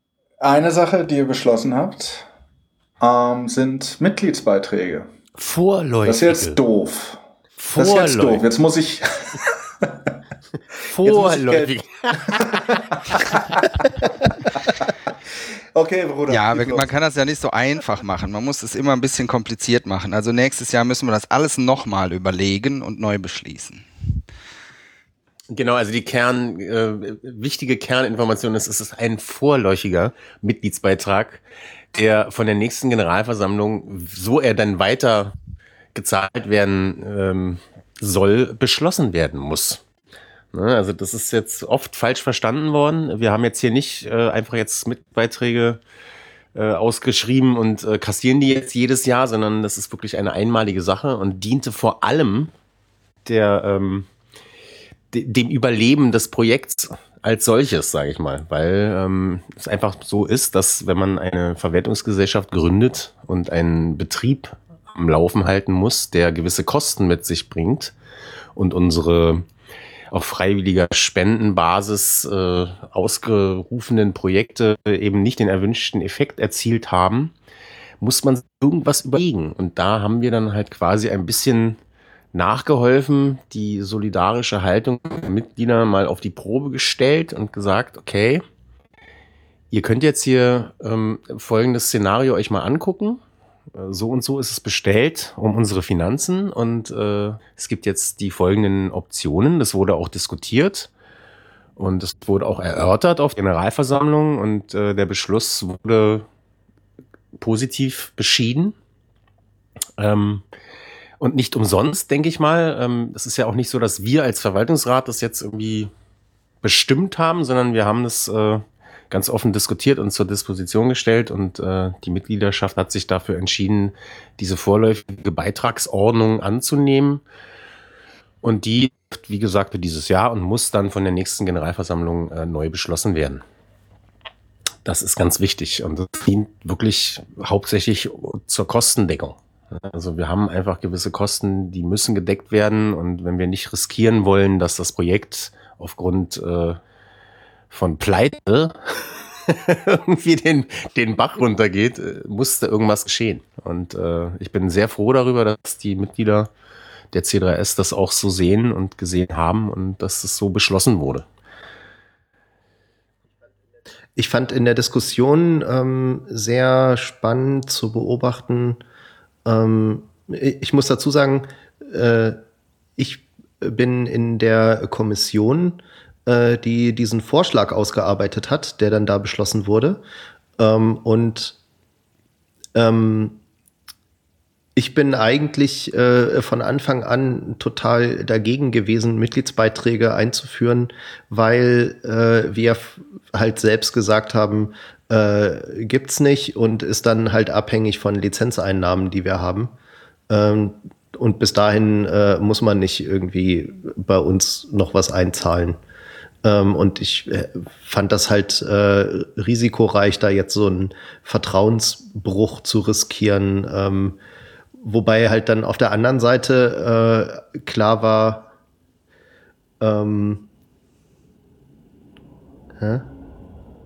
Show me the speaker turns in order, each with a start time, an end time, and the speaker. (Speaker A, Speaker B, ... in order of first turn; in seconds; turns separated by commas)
Speaker A: 0.4-2.3, Speaker A: 3.0-5.1, Speaker B: 5.4-6.6, Speaker A: 6.0-7.2, Speaker B: 7.6-8.4, Speaker A: 7.8-10.1, Speaker B: 10.8-13.6, Speaker A: 11.0-14.9, Speaker A: 15.7-16.9, Speaker C: 16.3-23.9, Speaker B: 25.5-35.4, Speaker B: 35.9-39.8, Speaker B: 40.5-45.8, Speaker B: 46.5-52.5, Speaker B: 53.2-54.1, Speaker B: 55.1-67.9, Speaker B: 68.5-69.5, Speaker B: 70.1-77.3, Speaker B: 78.0-81.8, Speaker B: 82.3-88.4, Speaker B: 89.7-93.2, Speaker B: 93.7-100.9, Speaker B: 101.8-106.3, Speaker B: 107.4-108.7, Speaker B: 110.0-110.4, Speaker B: 111.2-115.9, Speaker B: 116.6-127.2, Speaker B: 128.4-133.4, Speaker B: 134.8-146.8, Speaker B: 147.7-156.5, Speaker B: 157.1-161.3, Speaker D: 164.2-168.8, Speaker D: 169.4-172.4, Speaker D: 173.0-180.0, Speaker D: 180.6-181.6, Speaker D: 182.7-183.4, Speaker D: 184.8-199.7, Speaker D: 200.3-205.8, Speaker D: 206.4-214.2, Speaker D: 214.8-218.5, Speaker D: 219.8-220.5, Speaker D: 222.8-223.1